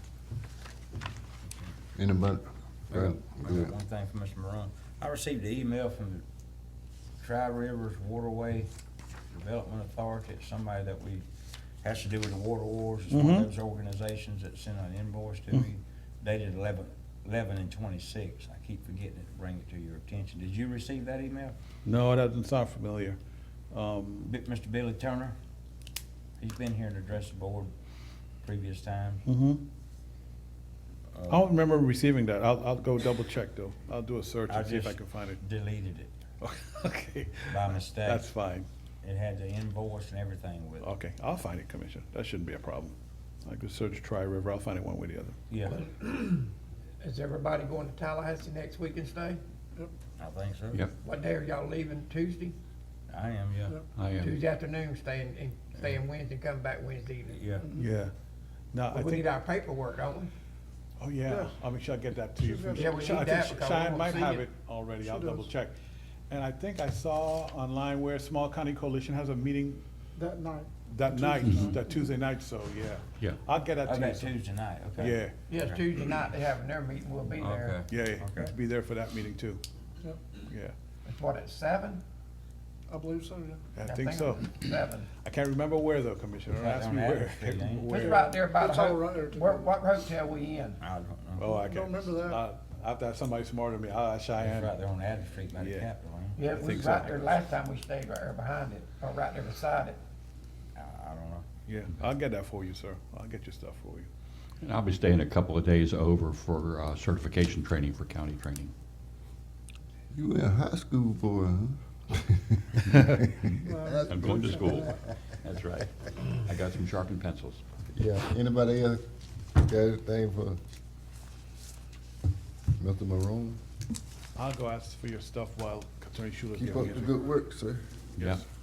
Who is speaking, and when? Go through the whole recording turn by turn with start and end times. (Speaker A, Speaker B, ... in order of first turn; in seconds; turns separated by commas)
Speaker A: 1.4-1.7, Speaker B: 1.9-3.7, Speaker A: 2.9-6.2, Speaker A: 7.2-8.7, Speaker A: 9.3-11.2, Speaker A: 11.8-21.6, Speaker C: 13.1-13.5, Speaker C: 21.8-23.2, Speaker C: 23.7-24.3, Speaker A: 24.3-25.4, Speaker A: 26.4-27.7, Speaker A: 28.4-29.2, Speaker C: 29.2-29.6, Speaker A: 31.1-31.5, Speaker C: 31.3-35.4, Speaker A: 34.5-36.1, Speaker C: 36.4-38.7, Speaker A: 37.5-38.3, Speaker A: 39.0-40.8, Speaker C: 40.8-45.4, Speaker A: 45.5-45.8, Speaker D: 45.7-46.5, Speaker D: 47.0-49.4, Speaker A: 50.2-50.8, Speaker D: 50.9-52.5, Speaker A: 53.1-53.8, Speaker E: 53.9-54.4, Speaker D: 54.2-57.6, Speaker A: 57.3-57.7, Speaker C: 57.7-58.1, Speaker C: 58.7-59.2, Speaker D: 58.9-60.3, Speaker C: 61.0-65.7, Speaker F: 61.3-61.6, Speaker F: 62.4-63.2, Speaker D: 62.7-64.5, Speaker F: 65.0-65.5, Speaker C: 66.3-69.8, Speaker F: 70.2-72.2, Speaker C: 70.8-74.4, Speaker A: 73.8-75.8, Speaker C: 75.0-75.5, Speaker D: 75.5-77.8, Speaker A: 77.4-78.5, Speaker C: 77.9-79.6, Speaker C: 80.4-80.7, Speaker D: 81.0-82.0, Speaker F: 82.9-83.7, Speaker C: 83.7-84.6, Speaker D: 83.8-85.1, Speaker C: 85.2-88.2, Speaker A: 86.5-87.9, Speaker D: 87.9-90.8, Speaker F: 88.5-89.4, Speaker A: 90.8-91.5, Speaker C: 91.4-94.8, Speaker F: 91.6-92.4, Speaker A: 94.4-96.7, Speaker C: 95.6-95.9, Speaker D: 96.3-100.0, Speaker C: 96.5-97.3, Speaker A: 100.8-101.5, Speaker C: 101.7-104.1, Speaker E: 104.6-108.7, Speaker B: 110.1-114.7, Speaker F: 113.6-114.8, Speaker E: 114.0-117.6, Speaker B: 117.9-119.0, Speaker B: 119.5-120.6, Speaker B: 122.8-123.6, Speaker C: 124.3-127.2, Speaker B: 126.5-127.9, Speaker C: 128.2-128.4, Speaker E: 128.2-128.4